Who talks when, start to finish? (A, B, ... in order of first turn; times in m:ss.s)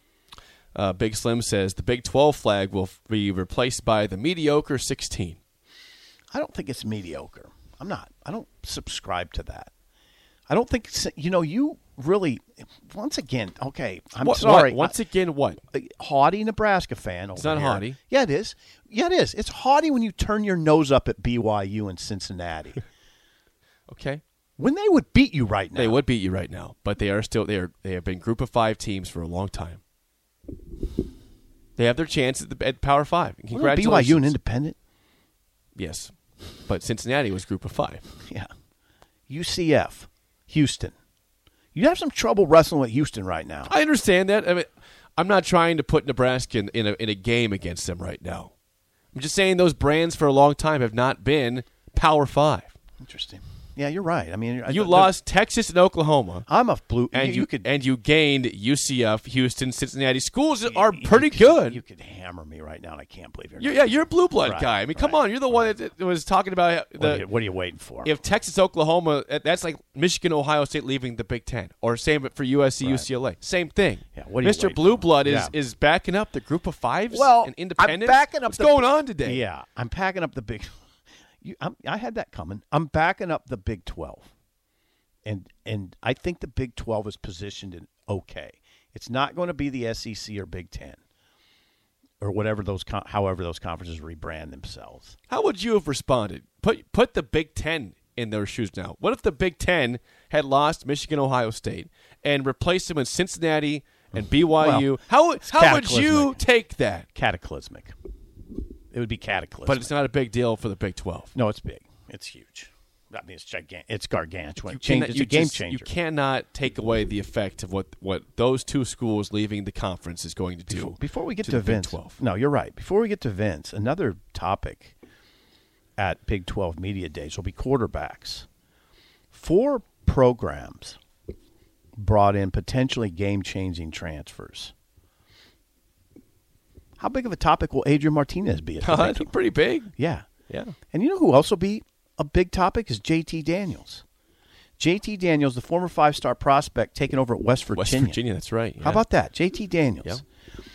0:00.7-0:05.4 A
0:06.3-0:09.7 B
0:10.5-0:15.0 B
0:14.2-0:15.6 A
0:15.7-0:22.8 B
0:17.4-0:18.0 A
0:23.9-0:24.2 A
0:24.6-0:26.0 B
0:25.8-0:29.8 A
0:31.8-0:34.3 A
0:33.5-0:34.8 B
0:35.8-0:36.1 A
0:36.6-0:38.0 A
0:38.2-0:38.5 B
0:39.3-0:40.9 B
0:41.7-0:43.7 B
0:43.7-0:48.5 A
0:49.1-0:52.8 A
0:53.0-0:55.1 B
0:54.7-0:56.4 A
0:56.5-0:57.7 B
0:57.1-1:01.8 A
1:00.7-1:05.7 B
1:03.6-1:07.2 A
1:07.0-1:08.1 B
1:08.0-1:19.4 A
1:12.8-1:13.1 B
1:14.1-1:15.5 B
1:17.1-1:20.7 B
1:21.4-1:24.3 B
1:25.2-1:31.0 B
1:32.2-1:35.2 B
1:35.3-1:47.0 A
1:44.6-1:44.9 B
1:45.4-1:46.4 B
1:47.1-1:47.9 B
1:48.9-1:49.9 B
1:49.6-1:51.3 A
1:51.3-1:55.9 B
1:54.6-2:02.2 A
2:00.7-2:04.9 B
2:06.0-2:08.5 B
2:09.3-2:11.0 B
2:12.0-2:14.7 B
2:17.0-2:19.3 B
2:18.8-2:19.9 A
2:19.9-2:20.2 B
2:20.5-2:20.8 A
2:20.9-2:24.0 B
2:24.8-2:28.2 B
2:27.7-2:29.0 A
2:28.8-2:30.2 B